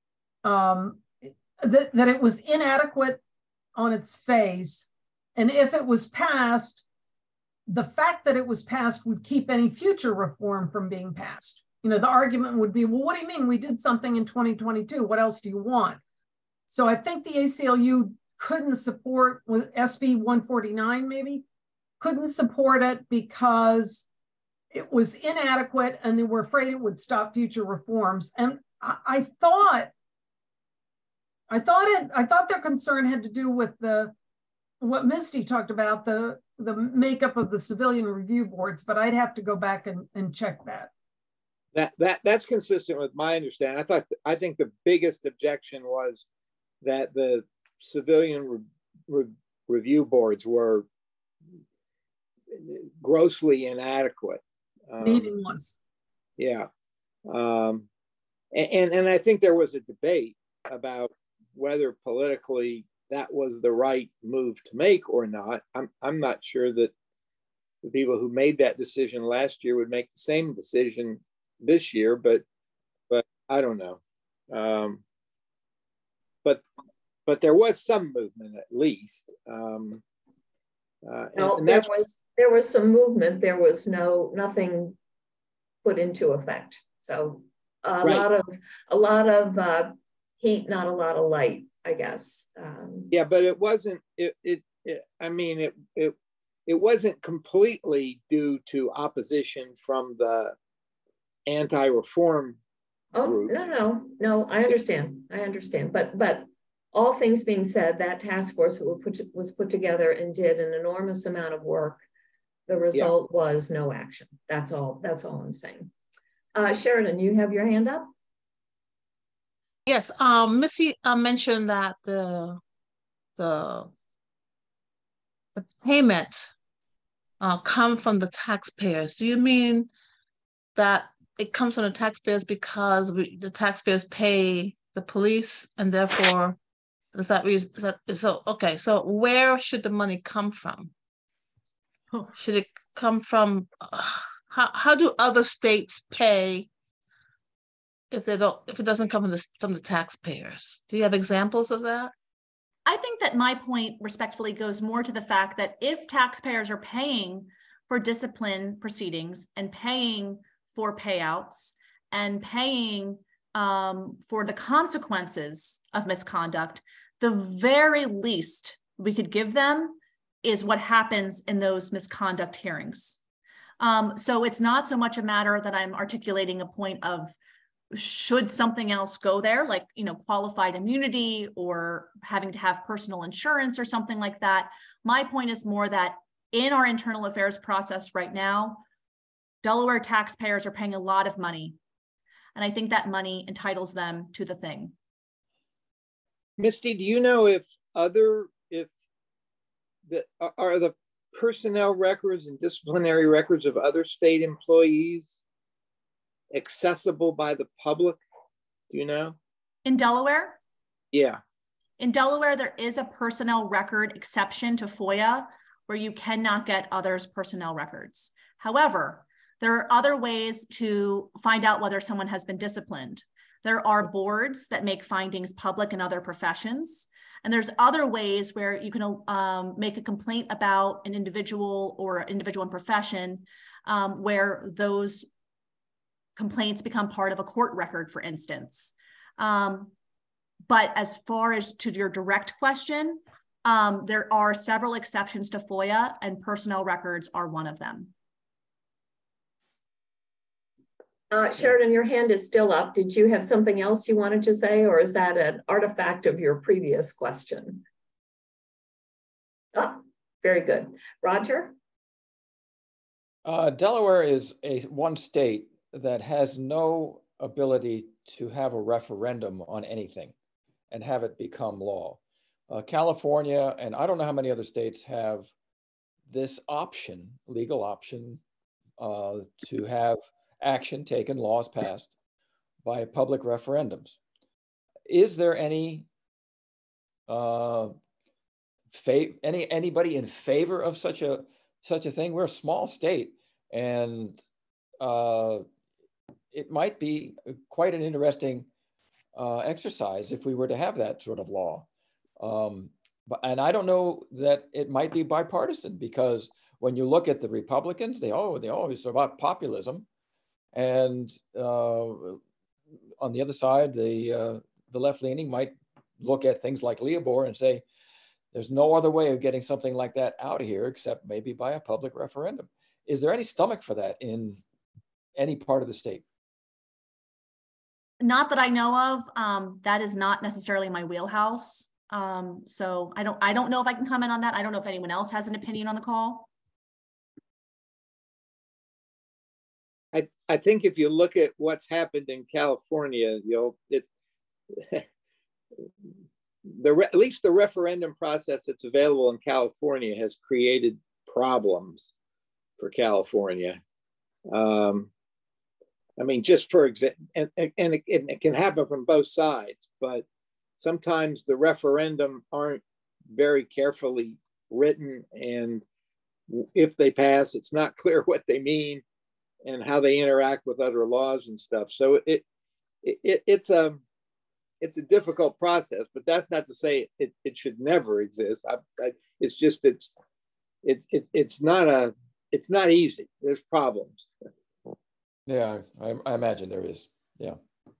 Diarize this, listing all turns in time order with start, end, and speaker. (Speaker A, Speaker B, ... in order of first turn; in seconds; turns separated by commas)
Speaker A: 0.4-3.2, Speaker A: 3.7-6.8, Speaker A: 7.7-16.0, Speaker A: 16.7-21.4, Speaker A: 22.0-24.1, Speaker A: 24.7-29.9, Speaker A: 31.5-34.1, Speaker A: 34.8-40.9, Speaker B: 41.7-46.2, Speaker B: 46.8-50.9, Speaker B: 52.5-55.3, Speaker A: 55.0-55.8, Speaker B: 56.4-56.7, Speaker B: 57.3-57.9, Speaker B: 58.5-66.9, Speaker B: 67.8-72.4, Speaker B: 73.1-74.0, Speaker B: 74.5-75.0, Speaker B: 77.2-80.0, Speaker B: 81.0-81.9, Speaker C: 81.3-85.0, Speaker C: 85.8-93.1, Speaker B: 93.1-96.1, Speaker B: 96.7-100.5, Speaker B: 101.5-102.6, Speaker C: 103.1-112.0, Speaker B: 103.2-103.7, Speaker C: 112.7-115.9, Speaker C: 116.5-118.1, Speaker D: 119.8-122.6, Speaker D: 123.4-123.9, Speaker D: 125.5-126.5, Speaker D: 127.4-129.9, Speaker D: 130.7-136.6, Speaker D: 137.1-140.9, Speaker D: 142.3-146.7, Speaker D: 148.1-152.1, Speaker E: 152.8-173.2, Speaker E: 173.8-177.3, Speaker E: 177.9-188.8, Speaker E: 189.6-191.8, Speaker E: 192.5-194.9, Speaker B: 196.6-198.9, Speaker B: 200.1-205.4, Speaker B: 206.5-208.2, Speaker B: 208.9-209.4, Speaker E: 209.8-210.6, Speaker B: 211.1-211.4, Speaker E: 212.0-235.3, Speaker E: 236.3-239.9, Speaker E: 240.7-248.1, Speaker C: 251.3-257.8, Speaker C: 259.7-261.7, Speaker F: 263.4-270.3, Speaker F: 270.9-275.5, Speaker F: 276.3-278.4, Speaker F: 279.0-282.1, Speaker F: 282.8-284.2, Speaker F: 285.1-286.1, Speaker F: 287.3-288.0, Speaker F: 288.9-294.4, Speaker F: 295.0-295.7, Speaker F: 296.5-298.7, Speaker F: 299.3-301.9, Speaker F: 302.4-310.1, Speaker F: 310.7-312.4, Speaker F: 313.2-317.8, Speaker F: 318.5-324.6, Speaker F: 325.4-326.2, Speaker E: 328.2-336.5, Speaker B: 340.1-344.0, Speaker B: 344.7-345.0, Speaker B: 346.7-352.1, Speaker B: 352.8-353.8, Speaker B: 354.5-355.1, Speaker B: 356.2-360.2, Speaker B: 360.8-365.8, Speaker B: 366.5-369.0, Speaker B: 369.6-372.4, Speaker B: 373.0-374.0, Speaker B: 374.8-380.1, Speaker B: 380.8-384.3, Speaker F: 385.5-387.6